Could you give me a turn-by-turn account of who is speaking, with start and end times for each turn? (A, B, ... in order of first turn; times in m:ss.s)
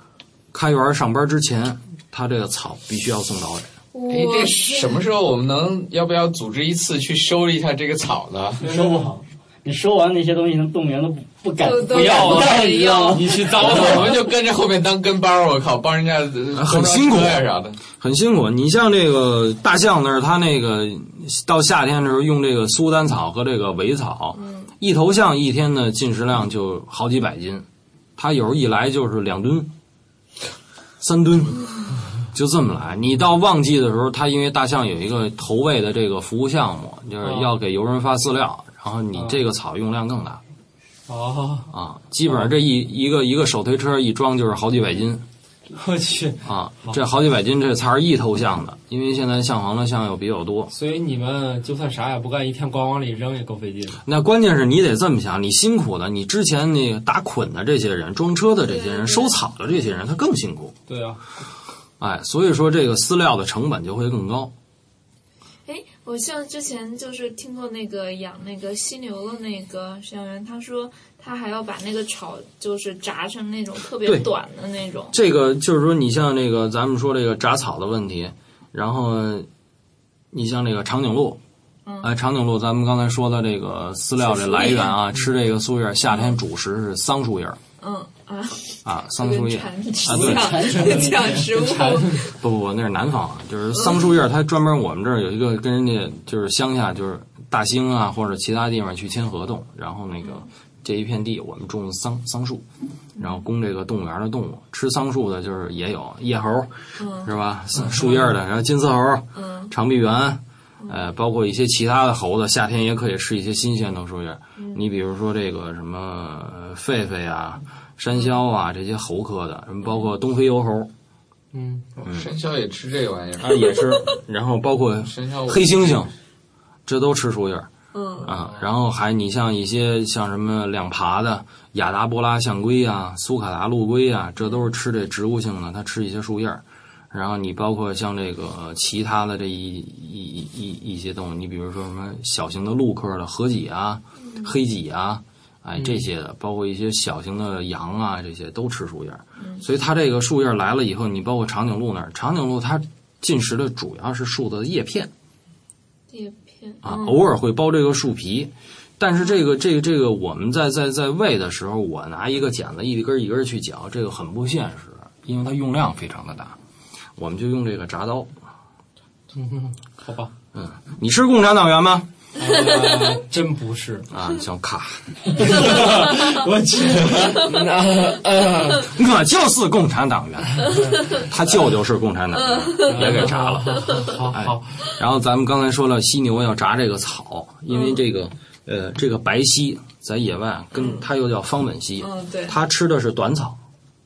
0:00.5-0:03.7 A
0:03.9-0:05.0 B
0:04.1-0:08.6 C
0:08.6-0:09.0 D
0:08.6-0:13.8 E
0:11.6-0:13.6 B
0:11.9-0:14.3 D
0:13.6-0:17.8 C
0:16.5-0:27.6 A
0:24.3-0:24.7 B
0:28.2-0:29.7 A
0:31.0-0:31.6 A
0:32.3-0:40.4 A
0:37.2-0:37.5 D
0:39.1-0:39.4 D
0:41.1-0:41.7 D
0:41.7-0:45.2 A
0:45.7-0:47.0 D
0:46.4-0:50.7 A
0:50.7-0:54.0 D
0:54.0-1:00.7 A
0:58.7-0:59.4 B
1:00.9-1:01.2 D
1:02.0-1:04.5 A
1:05.6-1:15.1 B
1:14.0-1:14.3 A
1:15.1-1:19.5 A
1:20.3-1:21.4 A
1:21.8-1:22.1 B
1:22.0-1:27.6 A
1:24.2-1:24.9 B
1:26.1-1:26.4 B
1:27.8-1:32.3 B
1:28.8-1:30.6 A
1:30.0-1:32.0 E
1:30.9-1:32.1 D
1:32.3-1:42.6 A
1:43.2-2:00.9 A
1:47.0-1:47.3 B
1:49.4-1:49.7 B
1:54.6-1:54.8 B
2:01.5-2:01.8 D
2:02.0-2:02.3 A
2:02.0-2:03.7 C
2:03.4-2:06.1 A
2:05.0-2:06.1 C
2:06.8-2:07.7 A
2:07.9-2:08.3 B
2:08.2-2:35.1 A
2:24.2-2:24.5 B
2:25.8-2:26.0 D
2:29.4-2:29.6 B
2:36.1-2:37.2 B
2:36.8-2:46.6 A
2:47.2-2:48.3 A
2:49.3-2:50.3 D
2:50.5-2:52.1 A
2:52.4-2:54.1 D
2:54.1-2:55.8 A
2:55.4-2:58.9 D
2:58.8-3:13.6 A
3:00.8-3:01.2 B
3:02.3-3:03.2 B
3:02.9-3:04.7 D
3:07.7-3:08.0 B
3:12.0-3:12.5 B